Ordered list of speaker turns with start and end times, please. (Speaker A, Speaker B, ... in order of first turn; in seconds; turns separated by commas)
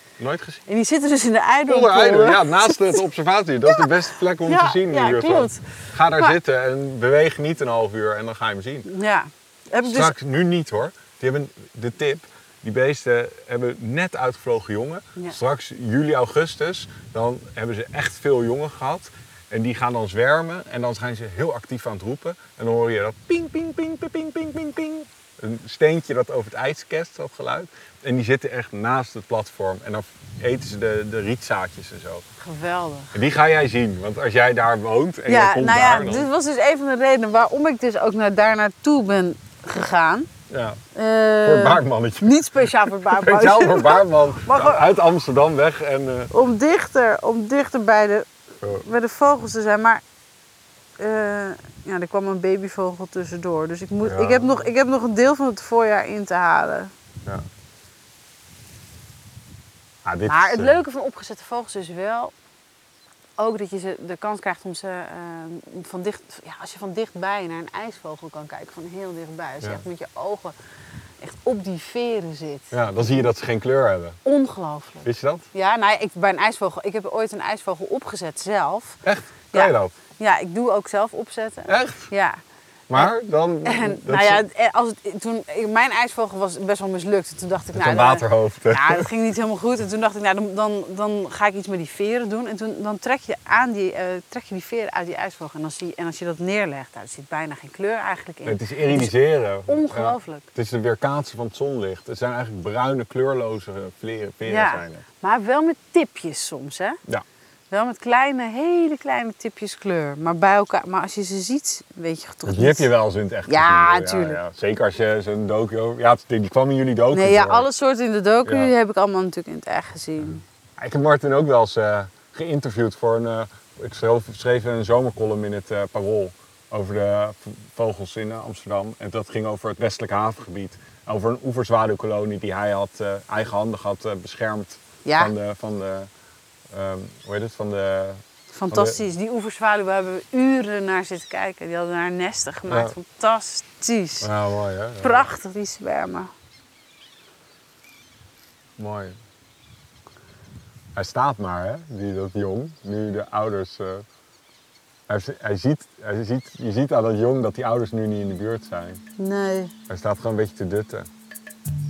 Speaker A: 0.2-0.6, Speaker B: 0.7-3.0, Speaker A: 1.7-8.9, Speaker B: 3.6-5.6, Speaker B: 8.9-10.1, Speaker A: 9.8-32.2, Speaker B: 32.4-33.1, Speaker A: 33.1-36.3, Speaker B: 35.3-40.3, Speaker A: 40.5-40.8, Speaker B: 40.9-44.9, Speaker A: 41.4-42.4, Speaker A: 43.1-46.3, Speaker B: 46.3-48.3, Speaker A: 48.6-48.9, Speaker B: 48.8-50.0, Speaker B: 51.0-56.9, Speaker A: 54.0-54.6, Speaker A: 60.0-60.8, Speaker B: 60.3-62.3, Speaker B: 63.4-70.5, Speaker B: 71.2-72.7, Speaker A: 72.7-74.2, Speaker B: 74.2-79.0, Speaker A: 75.0-75.5, Speaker A: 79.0-80.0, Speaker B: 79.5-82.4, Speaker A: 81.7-82.1, Speaker A: 82.9-84.4, Speaker B: 83.6-100.5, Speaker A: 87.8-89.1, Speaker A: 98.4-105.0, Speaker B: 104.5-107.0, Speaker B: 107.7-112.9, Speaker A: 112.4-117.7, Speaker B: 113.5-114.4, Speaker B: 117.1-120.4, Speaker A: 118.4-118.7, Speaker A: 120.8-136.1, Speaker B: 135.1-135.3, Speaker A: 136.7-139.0, Speaker B: 138.5-144.3, Speaker A: 142.7-142.9, Speaker A: 144.2-145.3, Speaker B: 145.0-146.3, Speaker A: 148.8-149.2, Speaker A: 150.9-154.1, Speaker A: 155.1-159.0, Speaker B: 159.2-159.7, Speaker A: 159.9-161.1